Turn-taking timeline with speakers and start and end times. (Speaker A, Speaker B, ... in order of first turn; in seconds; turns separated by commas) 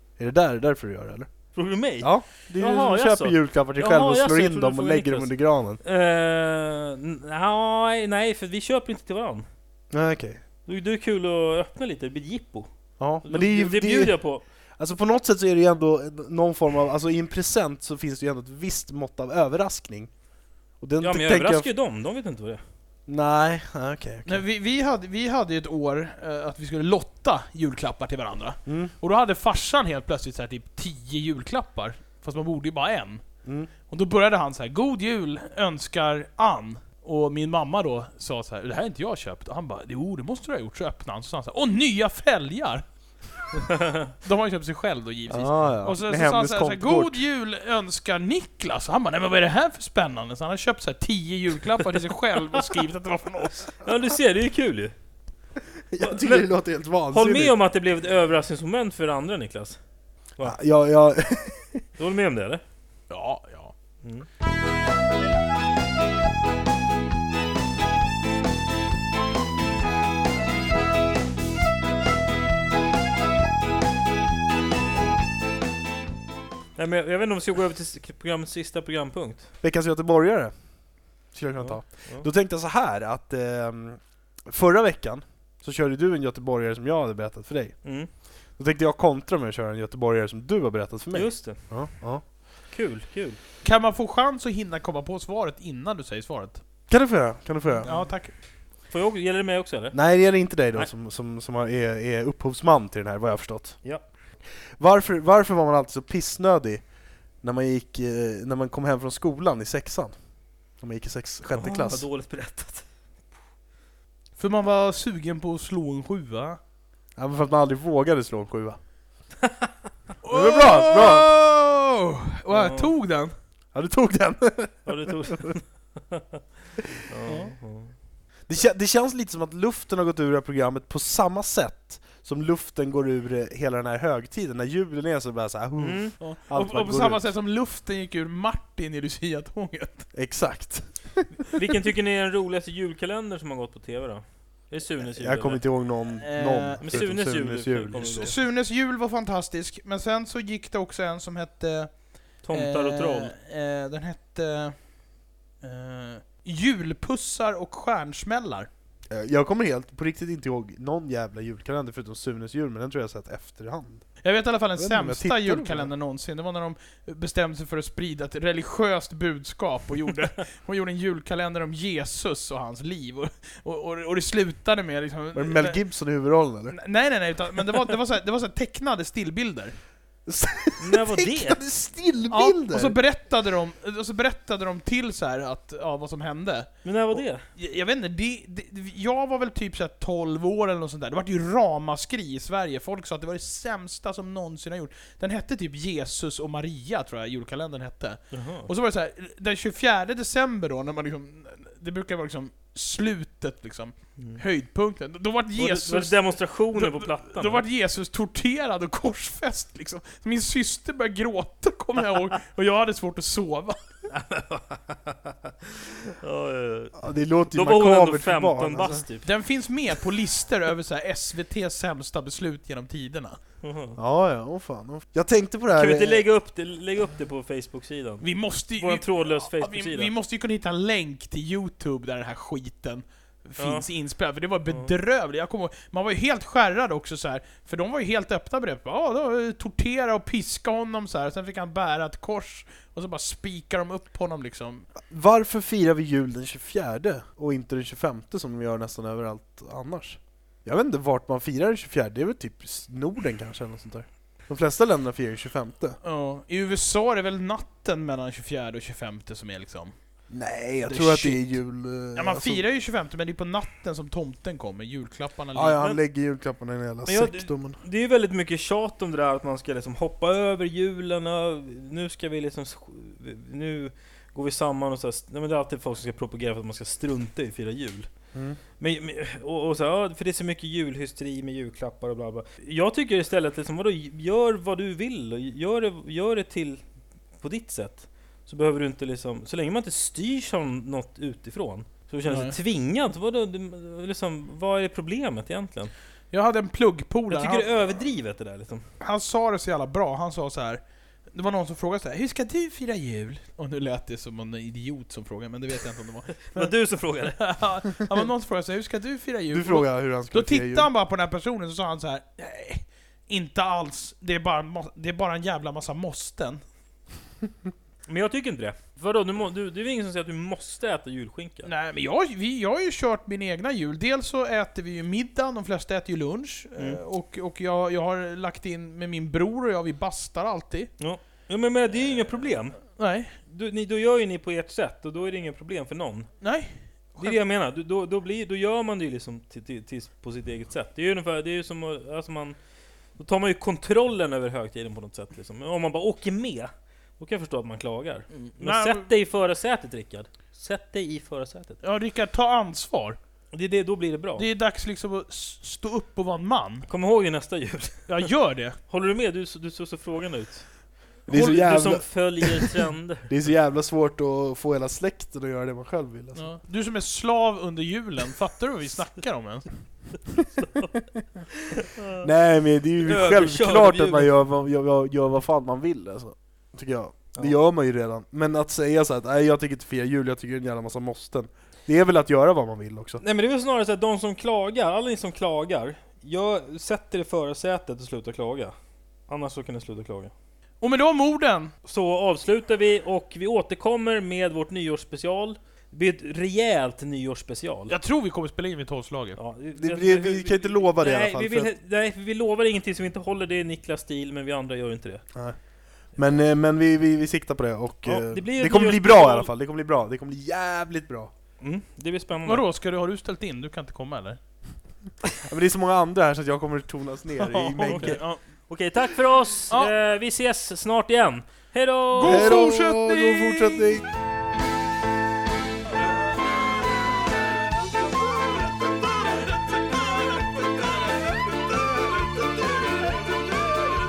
Speaker A: 0.2-1.3, Speaker B: 1.5-9.4, Speaker A: 2.0-5.8, Speaker A: 9.9-10.4, Speaker B: 10.7-14.4, Speaker A: 13.0-14.2, Speaker A: 14.8-20.1, Speaker A: 20.8-21.7, Speaker B: 21.0-22.6, Speaker A: 23.1-24.4, Speaker C: 24.2-33.2, Speaker A: 28.6-28.9, Speaker A: 33.4-33.7, Speaker C: 33.9-42.8, Speaker C: 44.2-53.6, Speaker A: 45.3-47.2, Speaker B: 53.8-54.9, Speaker A: 55.9-57.5, Speaker B: 56.0-56.5, Speaker B: 57.1-59.8, Speaker A: 60.4-61.8, Speaker B: 62.0-62.6, Speaker C: 63.1-63.7, Speaker B: 64.0-64.3, Speaker B: 76.8-79.5, Speaker A: 79.6-80.5, Speaker A: 81.3-87.9, Speaker B: 81.6-82.2, Speaker B: 87.8-88.1, Speaker A: 88.5-92.2, Speaker B: 91.1-91.7, Speaker B: 92.7-93.4, Speaker C: 93.6-96.6, Speaker A: 96.9-97.9, Speaker C: 97.8-98.3, Speaker B: 97.8-98.1, Speaker B: 98.9-100.0, Speaker A: 99.9-103.8, Speaker A: 104.8-106.8, Speaker A: 107.4-110.2, Speaker A: 110.8-112.0, Speaker B: 111.5-112.9, Speaker C: 114.4-116.6, Speaker A: 117.2-118.8, Speaker C: 120.2-123.3, Speaker A: 120.3-121.3, Speaker B: 122.5-122.9, Speaker A: 123.7-125.5, Speaker B: 124.8-126.4, Speaker B: 127.1-127.9, Speaker C: 127.2-127.5, Speaker A: 128.5-137.3, Speaker B: 135.8-136.1, Speaker C: 136.2-140.1, Speaker A: 140.1-141.5, Speaker B: 141.5-145.6, Speaker A: 145.0-148.3, Speaker C: 146.2-147.0, Speaker B: 146.8-148.3, Speaker C: 148.2-154.9, Speaker B: 152.4-153.3, Speaker C: 155.6-158.7, Speaker A: 159.1-164.1, Speaker C: 164.2-175.8, Speaker A: 164.8-165.9, Speaker A: 175.3-176.8, Speaker C: 176.7-179.7, Speaker A: 180.2-183.0, Speaker B: 180.8-181.6, Speaker C: 182.3-213.8, Speaker B: 186.8-187.4, Speaker B: 198.3-198.7, Speaker B: 205.6-207.6, Speaker B: 214.1-219.3, Speaker A: 217.0-219.0, Speaker C: 219.2-223.4, Speaker B: 223.6-224.0, Speaker A: 224.0-226.2, Speaker B: 225.8-228.2, Speaker C: 228.2-244.9, Speaker B: 228.8-230.1, Speaker B: 233.6-233.8, Speaker A: 245.1-256.0, Speaker C: 256.0-259.9, Speaker A: 260.3-262.6, Speaker C: 260.8-261.6, Speaker C: 262.1-265.9, Speaker A: 265.5-267.8, Speaker B: 267.1-278.1, Speaker A: 278.3-278.6, Speaker B: 278.8-286.8, Speaker B: 287.4-295.9, Speaker C: 292.2-292.6, Speaker C: 296.3-297.7, Speaker B: 297.3-298.8, Speaker C: 299.0-300.8, Speaker C: 301.3-306.7, Speaker B: 306.5-307.4, Speaker C: 307.3-316.6, Speaker A: 309.5-310.9, Speaker B: 318.1-321.7, Speaker C: 321.6-330.9, Speaker B: 331.0-332.8, Speaker C: 333.0-333.4, Speaker B: 333.4-336.3, Speaker C: 336.4-337.4, Speaker B: 337.2-342.6, Speaker B: 343.2-351.8, Speaker C: 348.3-349.1, Speaker C: 351.8-353.2, Speaker B: 353.5-354.4, Speaker C: 354.4-356.9, Speaker B: 356.9-358.3, Speaker C: 358.1-358.8, Speaker B: 358.9-360.7, Speaker B: 361.2-363.3, Speaker A: 361.3-362.7, Speaker A: 363.3-366.5, Speaker C: 366.3-369.7, Speaker B: 370.5-371.0, Speaker B: 371.7-372.3, Speaker A: 372.2-383.2, Speaker B: 373.0-374.3, Speaker B: 383.2-388.7, Speaker B: 389.3-390.3, Speaker C: 390.8-391.7, Speaker B: 391.9-397.9, Speaker C: 397.9-399.4, Speaker B: 399.4-405.2, Speaker A: 399.8-401.7, Speaker A: 406.1-411.3, Speaker B: 408.0-409.5, Speaker B: 411.6-412.6, Speaker C: 412.4-414.4, Speaker A: 415.4-418.2, Speaker C: 417.4-418.4, Speaker B: 417.8-422.6, Speaker C: 422.1-423.8, Speaker A: 422.2-424.1